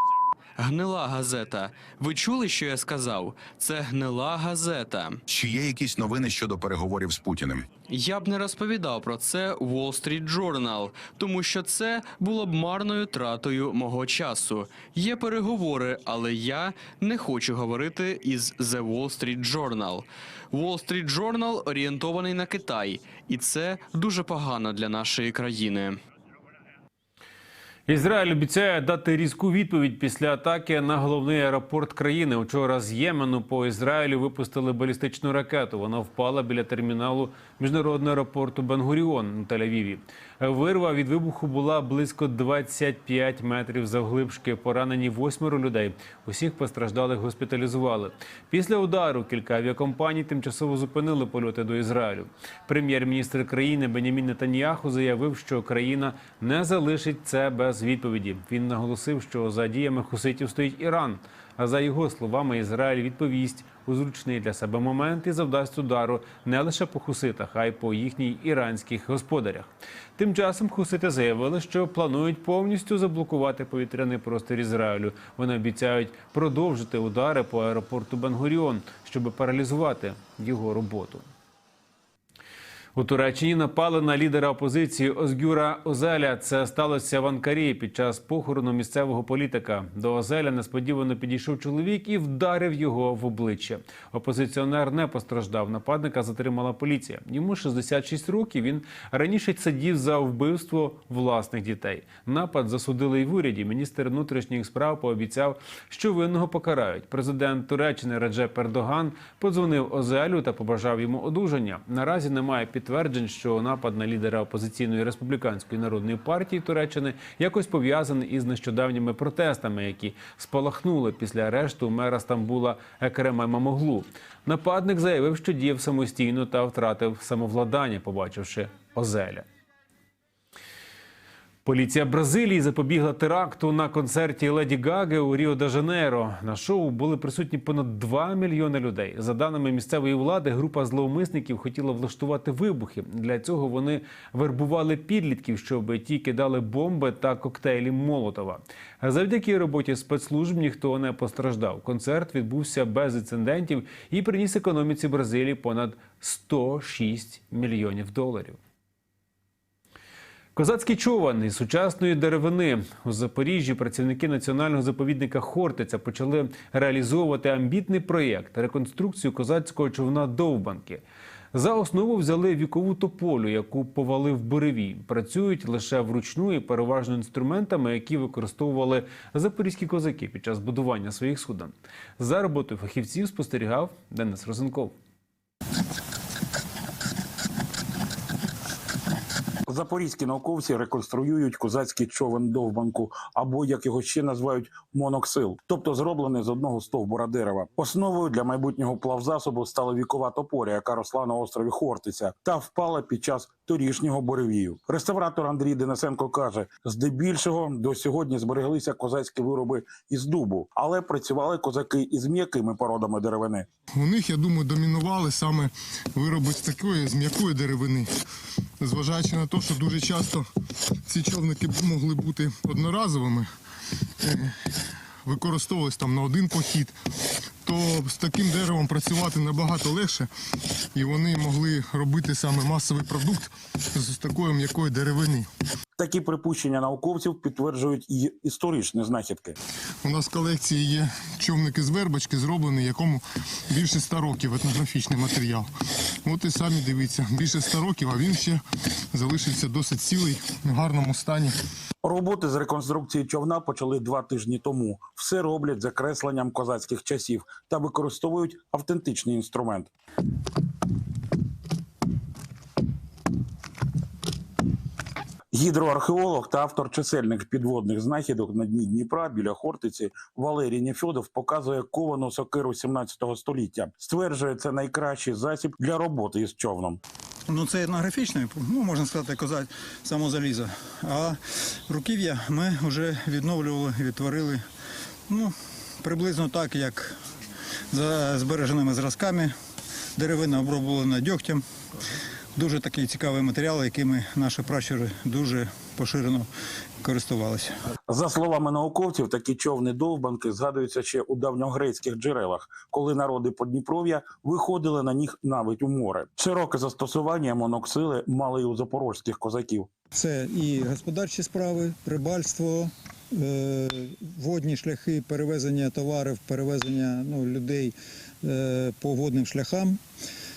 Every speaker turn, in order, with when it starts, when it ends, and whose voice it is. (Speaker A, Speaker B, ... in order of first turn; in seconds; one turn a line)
Speaker A: 0.6-5.2
Speaker B: 5.3-7.7
Speaker A: 7.8-26.0
Speaker C: 27.9-81.2
Speaker C: 83.0-129.4
Speaker C: 131.6-158.6
Speaker C: 160.6-171.0
Speaker C: 171.5-184.9
Speaker D: 189.7-213.7
Speaker E: 213.9-218.1
Speaker E: 218.8-220.5
Speaker E: 221.1-223.5
Speaker E: 224.2-224.5
Speaker E: 225.2-226.9
Speaker E: 227.6-230.3
Speaker E: 230.9-235.5
Speaker D: 236.0-239.6
Speaker E: 240.0-245.7
Speaker E: 246.2-251.5
Speaker D: 252.0-259.9
Speaker D: 265.5-277.0
Speaker F: 277.5-284.6
Speaker F: 285.3-287.1
Speaker F: 287.9-289.5
Speaker F: 290.1-291.6
Speaker F: 292.6-296.5
Speaker F: 297.0-297.7
Speaker D: 298.1-309.9
Speaker F: 310.1-320.0